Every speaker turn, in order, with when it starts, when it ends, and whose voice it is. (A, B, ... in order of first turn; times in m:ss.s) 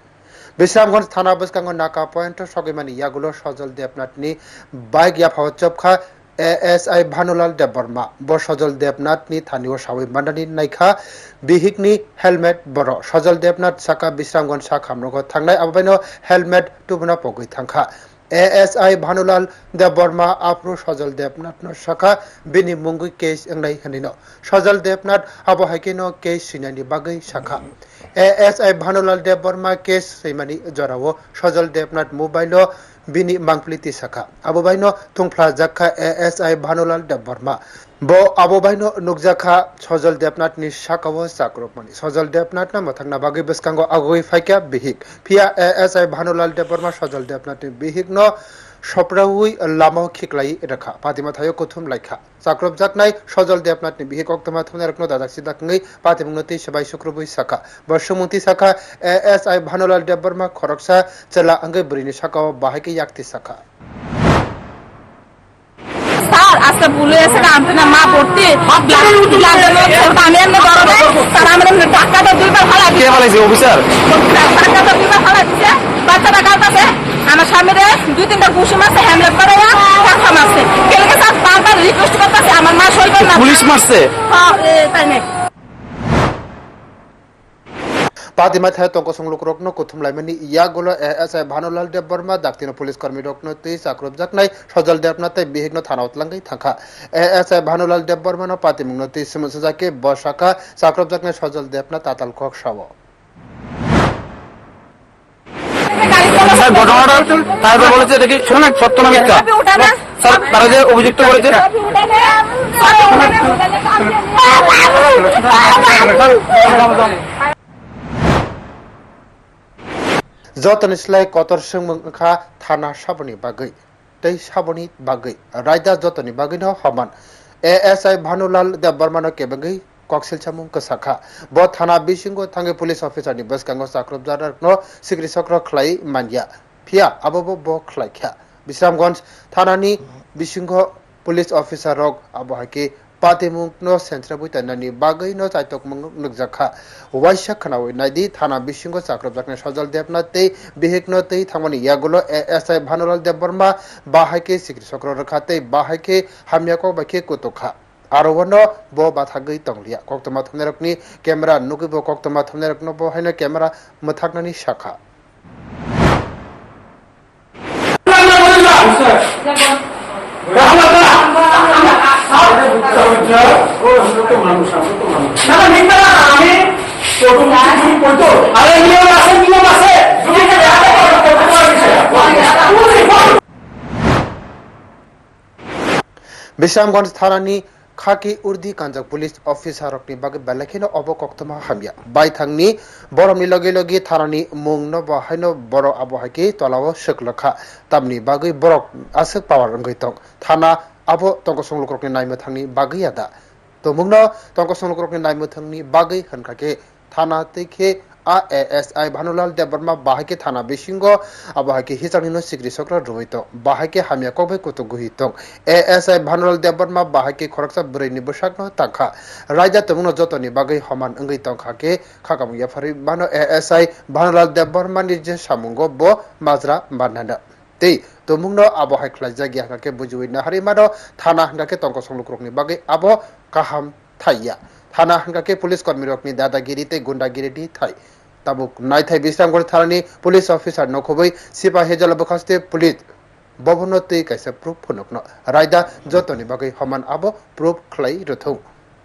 0:00.6-0:48.3 A
0:48.9-1:03.6 A
1:06.2-1:13.1 B
1:13.0-1:14.0 C
1:14.0-1:23.6 B
1:23.3-1:24.1 C
1:24.2-1:25.3 B
1:28.4-1:42.9 A
1:45.9-1:47.1 B
1:46.4-1:51.7 C
1:49.3-1:50.6 B
1:51.6-1:56.2 B
1:55.5-1:57.1 C
2:00.6-2:07.1 A
2:07.7-2:45.0 A
2:48.1-2:48.9 C
2:50.5-2:51.3 C
2:52.7-2:55.7 C
2:57.2-3:00.3 C
3:01.2-3:02.0 C
3:06.6-3:23.3 A
3:23.8-3:58.0 A
3:58.5-4:03.0 A
4:03.6-4:08.6 A